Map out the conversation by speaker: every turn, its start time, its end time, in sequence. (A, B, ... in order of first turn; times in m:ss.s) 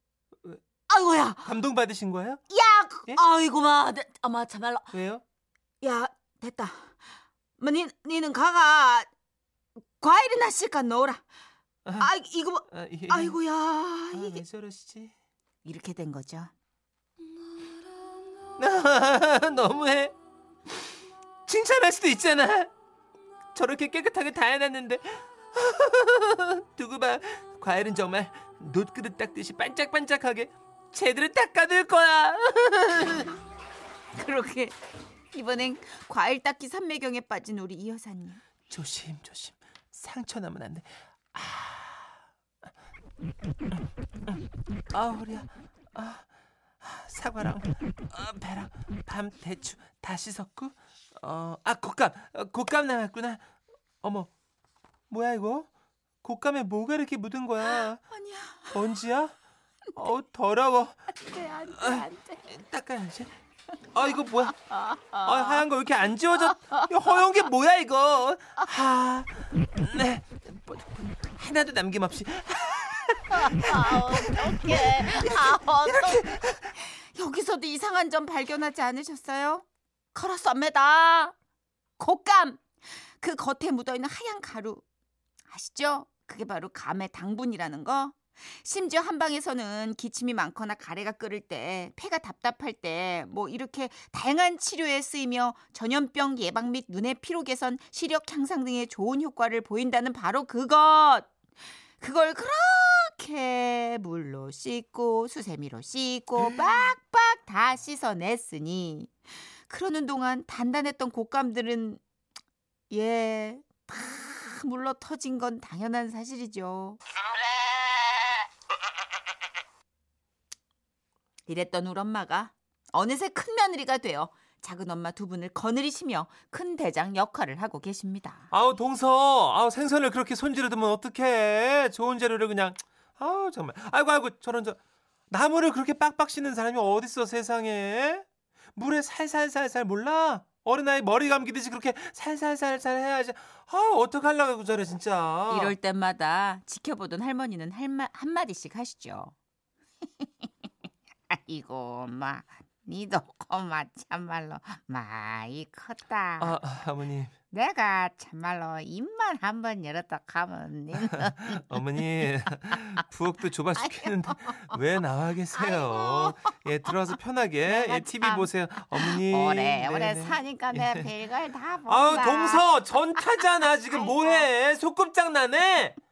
0:00.9-0:01.5 A
0:01.4-0:02.4 B
0:02.5-0:04.9 A
0:04.9-0:05.2 B
0:05.8-0:07.0 A
0:07.6-0:09.1 A
0:10.0-0:11.2 A
0:11.8-0:12.1 B
0:12.0-0:14.4 A
0:12.7-0:13.4 B
0:14.1-0:15.1 B
0:15.6-0:16.5 A
0:18.6-0:20.1 B
0:21.4-0:22.7 B
0:23.5-0:33.3 B
0:34.1-0:34.8 A
0:35.3-0:38.4 A
0:38.7-0:42.2 B
0:44.9-0:46.3 B
0:46.8-0:53.5 B
0:54.0-0:54.3 B
0:55.1-0:55.7 B
0:56.2-0:58.0 B
0:57.6-0:58.8 A
0:58.7-0:59.3 B
0:59.9-1:01.0 B
1:01.2-1:02.5 A
1:01.7-1:03.3 B
1:03.9-1:04.6 B
1:04.6-1:05.6 A
1:05.2-1:16.7 B
1:06.4-1:06.9 A
1:13.3-1:21.3 A
1:22.0-1:24.8 A
1:25.5-1:41.3 A
1:42.0-1:52.0 A
1:46.4-1:46.8 B
1:52.9-1:57.0 A
2:01.5-2:08.5 A
2:08.5-2:14.8 B
2:15.3-2:25.7 B
2:25.5-2:29.3 A
2:30.2-2:30.5 A
2:31.3-2:36.6 A
2:36.4-2:37.3 B
2:37.5-2:41.6 A
2:41.1-2:51.1 B
2:43.8-2:44.6 A
2:45.6-2:46.5 A
2:47.6-2:52.6 A
2:51.9-2:56.0 B
2:53.9-2:54.4 A